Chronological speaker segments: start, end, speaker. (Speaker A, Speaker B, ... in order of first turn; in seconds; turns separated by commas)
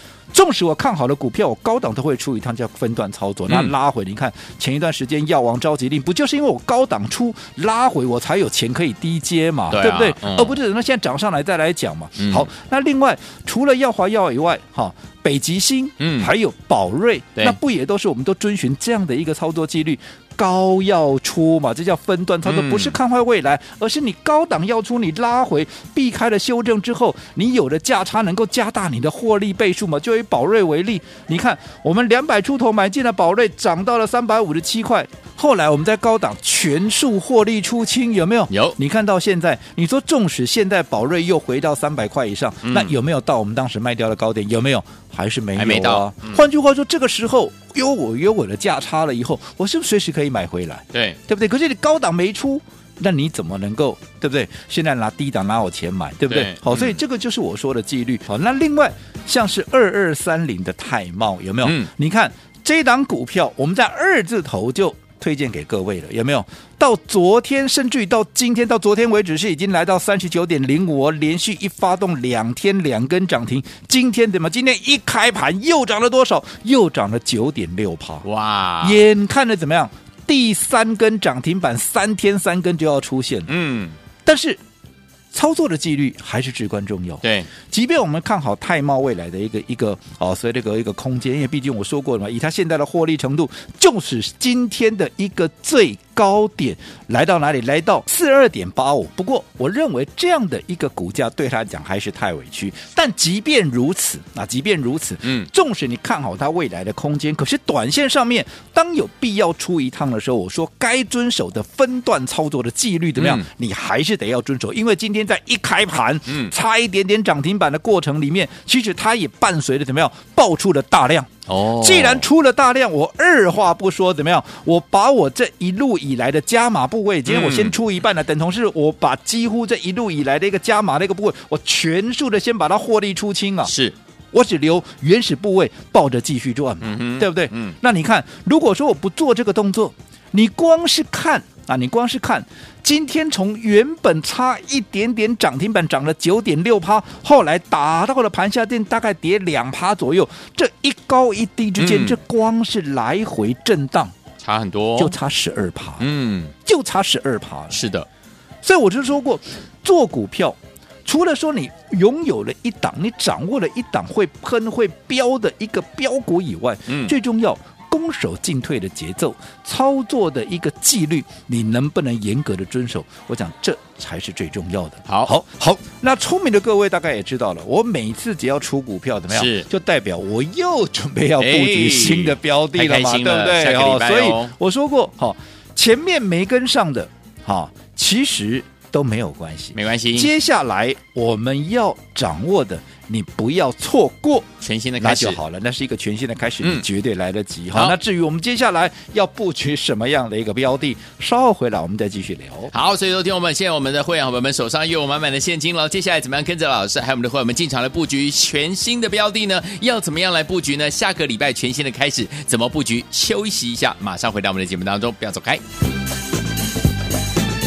Speaker A: 0.3-78.3, Speaker B: 3.5-3.7, Speaker B: 9.7-10.6, Speaker B: 12.2-12.5, Speaker B: 16.0-16.3, Speaker B: 22.4-23.0, Speaker B: 38.5-38.8, Speaker B: 42.6-42.9, Speaker B: 45.6-46.4, Speaker B: 50.9-51.2, Speaker B: 56.3-57.0, Speaker B: 61.6-61.9, Speaker B: 78.2-79.0, Speaker A: 78.8-83.5, Speaker B: 83.5-84.0, Speaker A: 84.2-84.6, Speaker A: 85.3-133.7, Speaker B: 87.2-87.5, Speaker B: 113.2-113.5, Speaker B: 116.3-116.5, Speaker B: 121.5-122.3, Speaker B: 127.3-127.8, Speaker B: 133.7-133.9, Speaker A: 134.3-154.2, Speaker B: 136.8-137.8, Speaker B: 151.8-152.2, Speaker B: 154.4-155.1, Speaker A: 155.0-156.1, Speaker B: 156.0-156.5, Speaker A: 156.7-157.8, Speaker B: 157.7-158.1, Speaker A: 158.6-202.7, Speaker B: 166.9-167.1, Speaker B: 175.1-175.3, Speaker B: 179.3-179.7, Speaker B: 181.4-184.5, Speaker B: 189.7-190.3, Speaker B: 194.6-195.4, Speaker B: 202.7-215.6